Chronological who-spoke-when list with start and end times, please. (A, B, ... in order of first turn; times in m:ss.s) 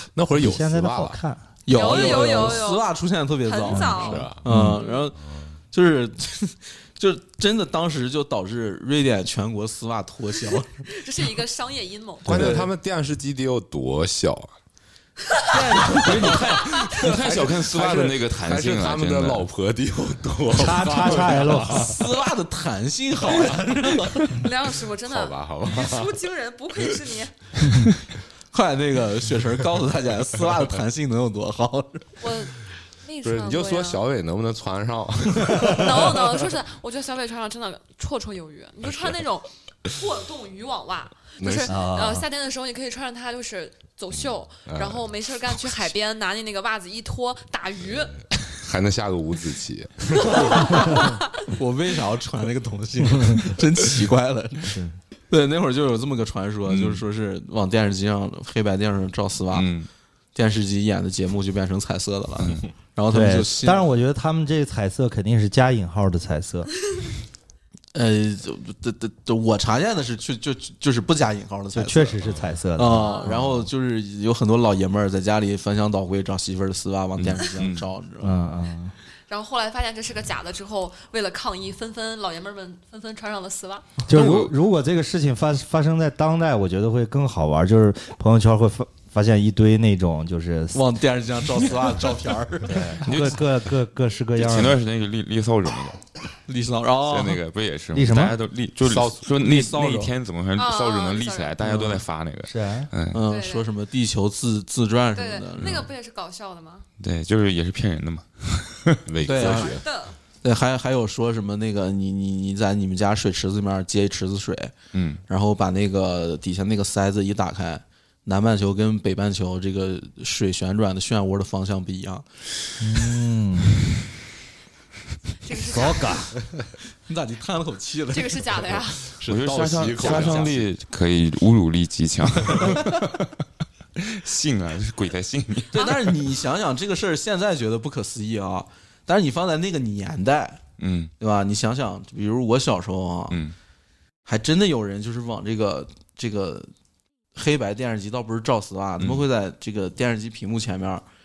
0:00.2-0:01.2 A
0:00.3-0:01.5 B
0:01.7-0:05.2 C
0:01.7-0:02.9 D
0:03.4-0:05.1 D
0:03.7-0:04.5 A
0:04.4-0:04.8 B
0:05.2-0:05.6 A
0:05.7-0:10.8 C
0:10.9-0:12.6 D
0:12.2-0:14.5 A
0:12.3-0:12.7 C
0:15.3-0:16.0 D
0:15.5-0:17.0 C
0:16.0-0:22.0 A
0:16.8-0:19.5 E
0:20.5-0:22.0 B
0:21.6-0:24.3 C
0:24.2-0:27.3 D
0:25.0-0:26.2 A
0:28.5-0:32.1 C
0:32.2-0:34.0 D
0:33.2-0:36.5 A
0:35.6-0:48.1 D
0:38.8-0:39.2 A
0:41.4-0:41.8 A
0:41.7-0:42.3 B
0:44.7-0:45.1 A
0:48.4-0:50.9 A
0:50.3-0:51.3 D
0:50.5-0:54.8 C
0:54.7-0:55.0 B
0:55.3-0:59.7 C
0:56.7-0:57.0 E
0:59.5-0:59.9 E
1:00.4-1:03.9 C
1:02.4-1:02.7 E
1:03.1-1:06.7 B
1:07.9-1:12.2 C
1:11.8-1:13.7 B
1:12.8-1:18.4 C
1:13.0-1:13.3 D
1:17.2-1:17.9 E
1:18.2-1:18.9 B
1:19.3-1:23.9 D
1:24.1-1:30.8 B
1:24.1-1:24.5 E
1:30.7-1:33.0 C
1:32.6-1:34.8 B
1:33.0-1:33.5 E
1:34.4-1:36.0 E
1:36.5-1:37.4 C
1:37.1-1:43.2 E
1:37.9-1:38.4 B
1:38.8-1:39.2 A
1:39.3-1:40.1 C
1:40.6-1:41.5 D
1:41.6-1:42.0 C
1:42.5-1:42.9 B
1:43.1-1:45.8 C
1:43.2-1:43.7 D
1:45.1-1:46.9 D
1:47.0-1:49.0 E
1:49.1-1:49.9 A
1:49.2-1:49.8 C
1:49.4-1:50.2 D
1:50.4-1:54.7 C
1:54.9-1:55.2 E
1:55.3-2:02.2 C
2:02.8-2:03.8 B
2:05.4-2:06.3 D
2:05.6-2:06.4 B
2:07.1-2:08.9 C
2:08.1-2:09.2 D
2:09.2-2:10.7 A
2:09.2-2:13.3 E
2:09.5-2:10.5 C
2:14.0-2:16.0 E
2:15.7-2:20.6 C
2:20.8-2:21.1 E
2:21.2-2:23.4 C
2:24.3-2:26.7 C
2:27.4-2:31.0 C